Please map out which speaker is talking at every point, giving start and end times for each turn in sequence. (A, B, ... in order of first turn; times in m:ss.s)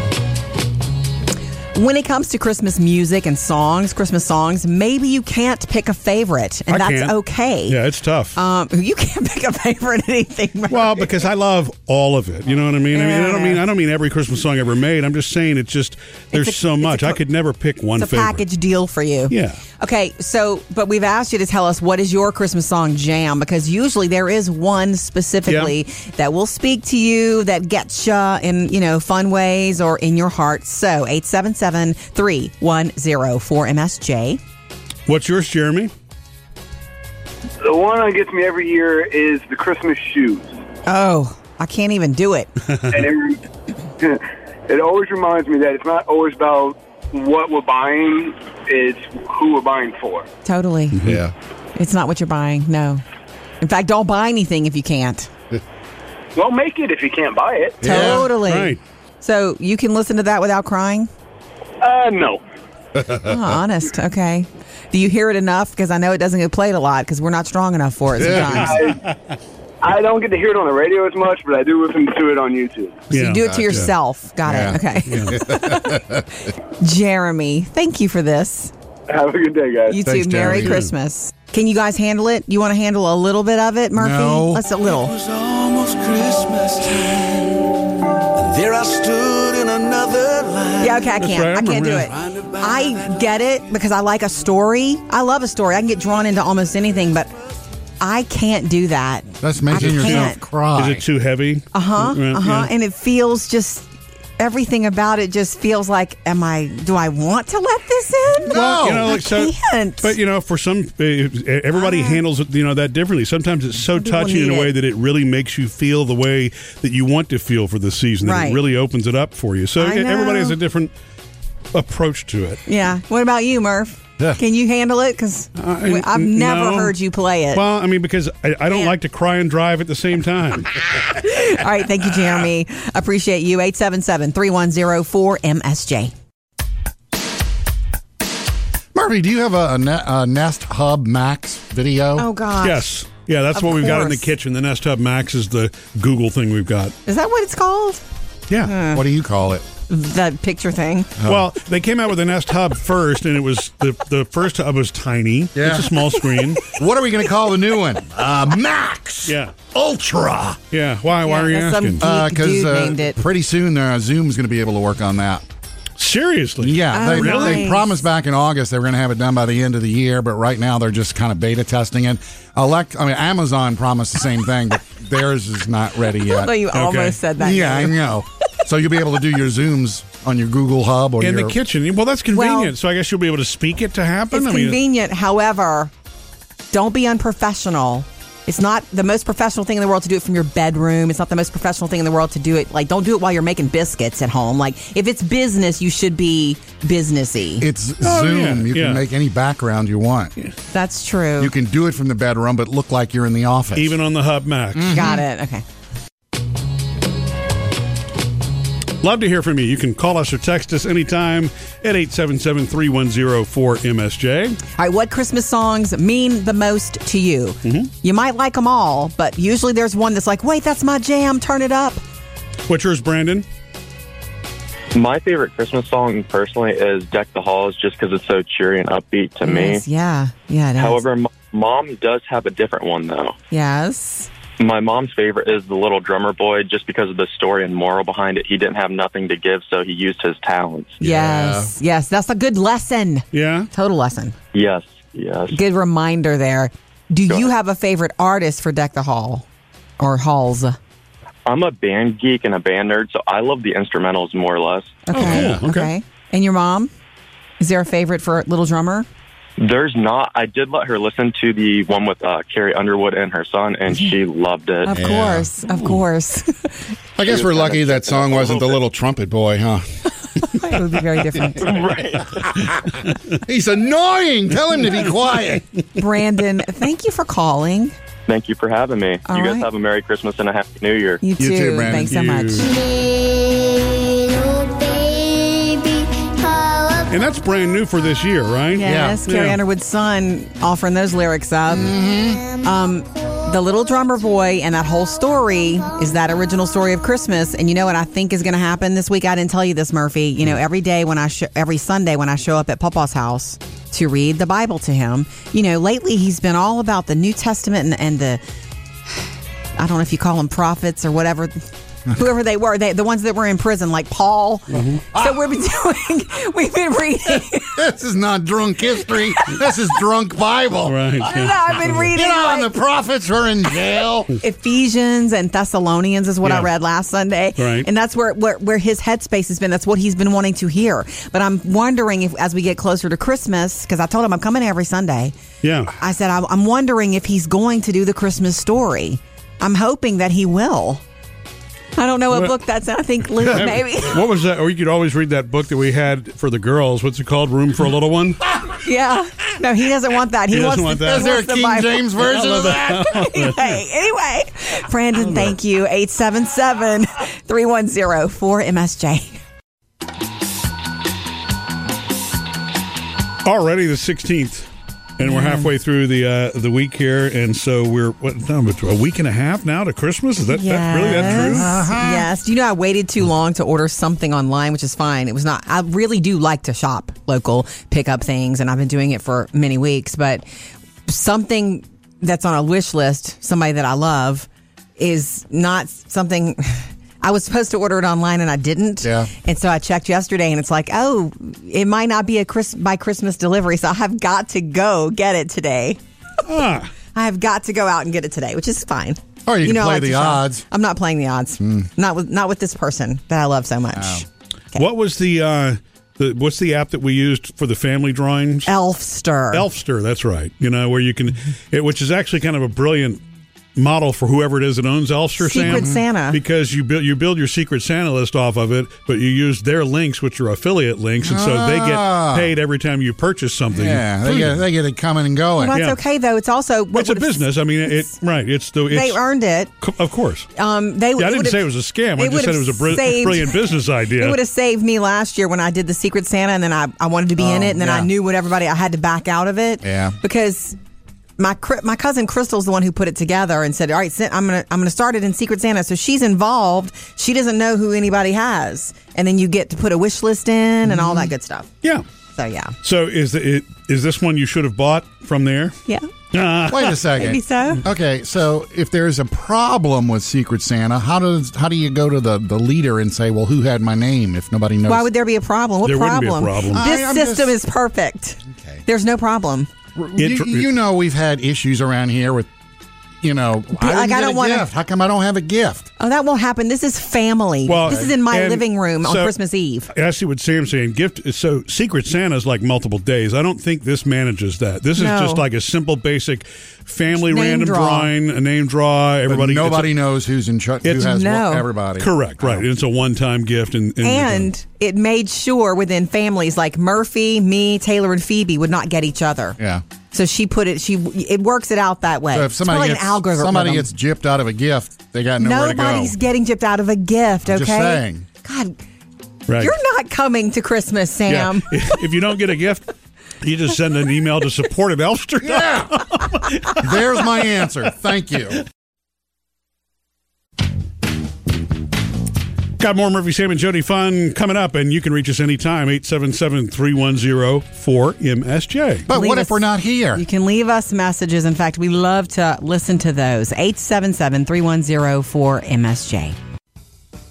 0:01.8-0:07.8 A
0:06.7-0:08.4 B
0:08.4-0:11.1 A
0:10.7-0:18.4 B
0:12.9-0:13.6 A
0:16.3-0:17.2 A
0:18.0-0:34.4 A
0:19.3-0:19.6 B
0:25.5-0:25.8 B
0:35.1-0:35.9 B
0:37.6-0:40.6 C
0:40.9-0:42.5 A
0:42.9-0:43.4 C
0:44.0-0:50.3 C
0:50.4-0:51.0 A
0:51.0-0:51.2 B
0:51.0-0:51.3 D
0:51.8-0:53.0 A
0:53.6-0:55.3 A
0:56.4-0:57.8 C
0:57.8-0:58.3 D
0:57.8-1:01.1 A
0:58.4-0:58.8 B
1:01.8-1:02.4 C
1:03.0-1:03.4 D
1:03.2-1:08.8 A
1:08.2-1:08.6 D
1:08.6-1:09.0 C
1:09.8-1:13.0 C
1:13.1-1:13.9 B
1:13.1-1:16.0 A
1:14.4-1:16.3 D
1:15.1-1:15.4 B
1:16.8-1:18.7 A
1:19.1-1:20.0 C
1:19.9-1:25.1 A
1:20.0-1:20.8 D
1:20.4-1:20.9 B
1:24.0-1:24.6 D
1:25.0-1:27.8 E
1:28.4-1:31.2 E
1:30.8-1:37.3 A
1:31.2-1:32.1 B
1:32.1-1:33.3 E
1:38.0-1:40.4 A
1:39.4-1:41.0 D
1:39.8-1:42.7 B
1:41.7-1:43.9 A
1:44.4-1:50.1 A
1:48.4-1:49.1 D
1:48.5-2:00.9 B
1:51.8-1:52.2 A
1:54.0-1:54.7 A
1:58.2-1:58.6 A
1:59.8-2:00.6 A
2:01.7-2:02.6 B
2:02.7-2:07.6 A
2:05.6-2:07.0 B
2:07.5-2:10.8 B
2:11.1-2:16.1 A
2:18.9-2:22.3 D
2:22.2-2:22.9 A
2:22.6-2:27.0 B
2:23.5-2:24.3 A
2:27.1-2:28.0 A
2:28.6-2:29.0 A
2:28.9-2:29.6 D
2:29.9-2:31.1 A
2:31.2-2:31.5 D
2:31.2-2:36.7 B
2:35.6-2:36.0 D
2:36.2-2:36.6 A
2:36.7-2:40.6 D
2:39.3-2:39.6 B
2:40.7-2:42.0 B
2:41.3-2:43.2 A
2:42.0-2:45.4 D
2:46.0-2:47.7 B
2:46.6-2:56.6 D
2:46.9-2:48.0 A
2:56.2-2:58.0 A
2:56.7-2:57.2 B
2:57.4-3:01.6 D
3:01.2-3:04.8 B
3:02.3-3:02.7 A
3:04.3-3:05.9 A
3:06.7-3:17.7 A
3:17.6-3:20.3 D
3:18.0-3:19.0 B
3:20.7-3:21.5 A
3:21.4-3:24.0 D
3:23.8-3:25.1 B
3:24.7-3:25.2 D
3:24.9-3:25.6 A
3:29.0-3:34.6 B
3:34.8-3:42.0 A
3:37.6-3:37.9 B
3:42.7-3:43.5 B
3:45.0-3:49.8 F
3:49.4-3:51.0 A
3:50.8-3:53.4 F
3:53.5-3:54.3 A
3:54.6-4:01.0 F
4:01.0-4:01.7 D
4:01.0-4:04.4 A
4:03.3-4:03.7 B
4:04.5-4:05.6 F
4:05.5-4:09.4 A
4:10.0-4:10.8 A
4:11.5-4:15.0 F
4:15.1-4:16.9 A
4:15.1-4:15.9 B
4:15.1-4:15.6 D
4:17.6-4:19.1 A
4:19.6-4:25.0 F
4:24.8-4:26.7 A
4:24.9-4:25.5 D
4:27.2-4:30.1 D
4:27.3-4:28.8 F
4:30.4-4:31.8 A
4:31.6-4:32.7 F
4:32.3-4:35.6 D
4:36.0-4:38.0 A
4:38.3-4:41.2 F
4:39.3-4:39.7 A
4:41.2-4:42.8 A
4:41.4-4:42.4 D
4:41.9-4:42.8 B
4:47.0-4:49.6 B
4:48.7-4:52.0 A
4:48.8-4:49.2 D
4:51.7-4:52.4 D
4:52.5-5:08.4 A
5:09.8-5:17.8 A
5:14.7-5:15.0 B
5:15.1-5:15.4 D
5:17.8-5:24.3 D
5:20.8-5:21.9 B
5:21.2-5:22.8 A
5:24.4-5:35.4 A
5:26.4-5:26.7 B
5:27.6-5:27.9 B
5:35.6-5:35.9 B
5:36.0-5:41.0 A
5:42.0-5:44.2 A
5:43.4-5:48.4 B
5:48.8-5:52.1 A
5:50.5-5:51.3 B
5:51.0-5:53.3 D
5:52.2-5:53.8 B
5:53.0-5:59.4 A
5:55.2-5:55.5 B
6:03.4-6:11.8 B
6:05.2-6:05.7 A
6:10.5-6:20.4 A
6:11.1-6:12.3 D
6:21.1-6:36.0 A
6:29.0-6:29.3 D
6:36.4-6:36.9 B
6:37.1-6:44.8 A
6:39.5-6:40.6 D
6:41.6-6:41.9 D
6:44.0-6:44.2 D
6:44.8-6:48.7 B
6:48.7-6:49.6 A
6:49.5-6:53.2 B
6:53.8-7:04.5 B
6:55.4-6:56.4 A
6:55.6-6:56.0 D
7:01.2-7:02.5 D
7:03.7-7:05.8 D
7:05.6-7:08.1 A
7:06.9-7:09.2 B
7:08.9-7:09.7 A
7:09.8-7:10.5 B
7:10.6-7:20.8 A
7:11.2-7:14.4 B
7:17.4-7:18.1 D
7:19.8-7:20.2 D
7:21.4-7:31.7 A
7:32.4-7:32.8 A
7:32.8-7:35.8 B
7:36.3-7:37.0 B
7:36.7-7:45.1 D
7:37.2-7:37.8 A
7:44.9-7:49.7 A
7:45.8-7:46.8 B
7:46.7-7:47.6 D
7:50.0-7:52.5 D
7:50.2-7:50.7 B
7:53.2-7:55.9 D
7:53.8-7:54.7 A
7:56.0-7:59.9 A
7:57.6-7:59.3 B
7:59.9-8:10.0 B
8:05.0-8:05.4 A
8:07.1-8:08.1 A
8:09.3-8:12.6 D
8:10.8-8:11.1 B
8:11.0-8:11.7 A
8:12.0-8:14.5 B
8:14.0-8:19.6 A
8:20.1-8:23.9 A
8:22.3-8:26.2 D
8:25.4-8:28.8 A
8:27.5-8:28.3 D
8:29.5-8:29.8 B
8:29.6-8:32.0 A
8:31.3-8:32.9 B
8:33.4-8:37.0 B
8:35.4-8:36.0 D
8:36.8-8:38.6 D
8:42.8-8:49.1 B
8:49.1-8:50.2 D
8:49.1-8:49.6 A
8:50.1-8:56.4 A